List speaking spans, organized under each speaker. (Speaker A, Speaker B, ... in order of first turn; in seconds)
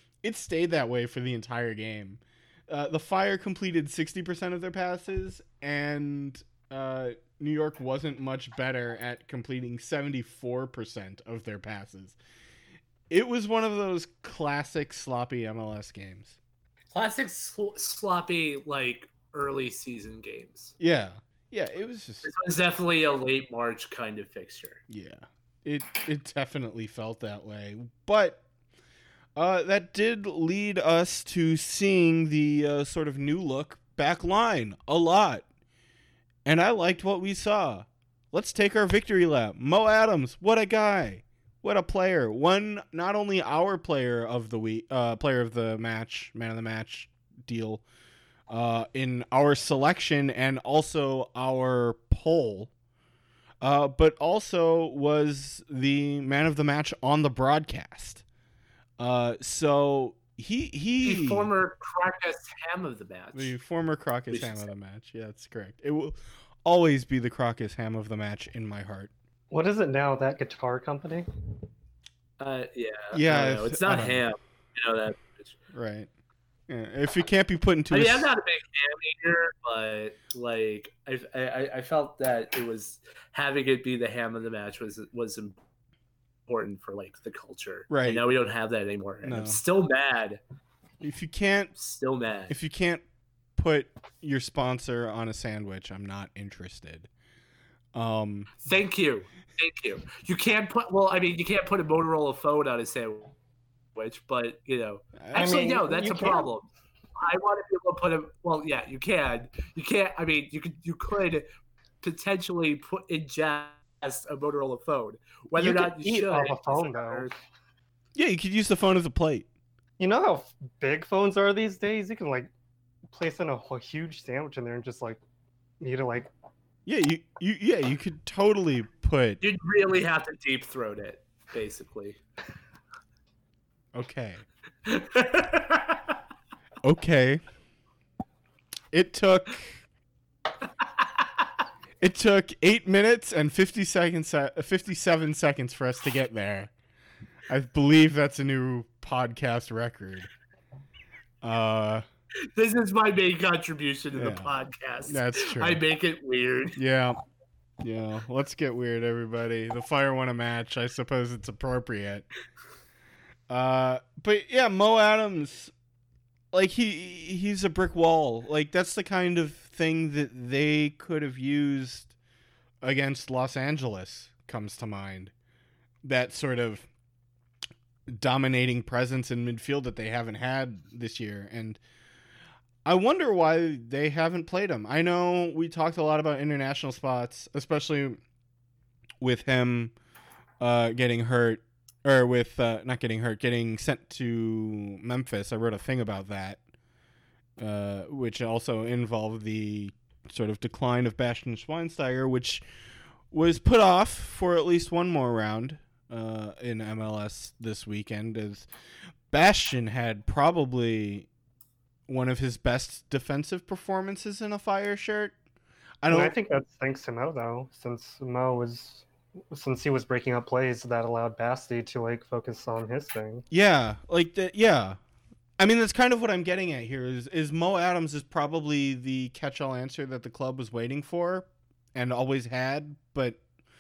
Speaker A: 0.2-12.2, 13.1-16.4, 20.8-22.3, 24.9-28.4, 29.4-35.5, 36.4-47.8, 48.5-52.7, 53.6-58.2, 59.0-61.5, 63.3-69.1, 73.1-74.2, 75.7-76.1, 76.7-78.3, 87.9-88.2, 89.2-89.6, 91.0-91.7, 92.5-93.0, 93.6-97.1, 97.9-98.6, 105.2-105.8, 118.1-119.5, 126.8-129.4, 133.9-134.4, 136.8-137.4, 138.9-139.8, 142.0-146.7, 147.5-150.3, 151.4-152.0, 154.1-154.5, 155.0-155.8, 156.8-157.2, 157.8-162.3, 163.5-165.7, 166.5-172.1, 172.8-175.3, 176.0-176.9, 178.1-181.8, 182.8-188.2, 189.2-189.9, 190.6-196.6, 197.6-202.6, 203.3-208.7, 209.3-211.3, 212.1-215.3, 216.0-216.3, 223.5-225.0, 225.6-233.4
Speaker B: 16.9-20.7, 22.2-24.8, 61.0-63.5, 64.3-64.7, 72.4-75.5, 77.9-85.6, 86.5-90.4, 91.8-92.5, 98.6-103.3, 103.9-111.5, 112.0-117.3, 129.4-132.2, 134.8-136.2, 140.8-141.4, 152.4-156.8
Speaker C: 69.5-71.3, 105.3-106.5, 115.7-117.3, 120.0-122.5, 123.1-125.2, 125.8-126.3, 216.1-223.4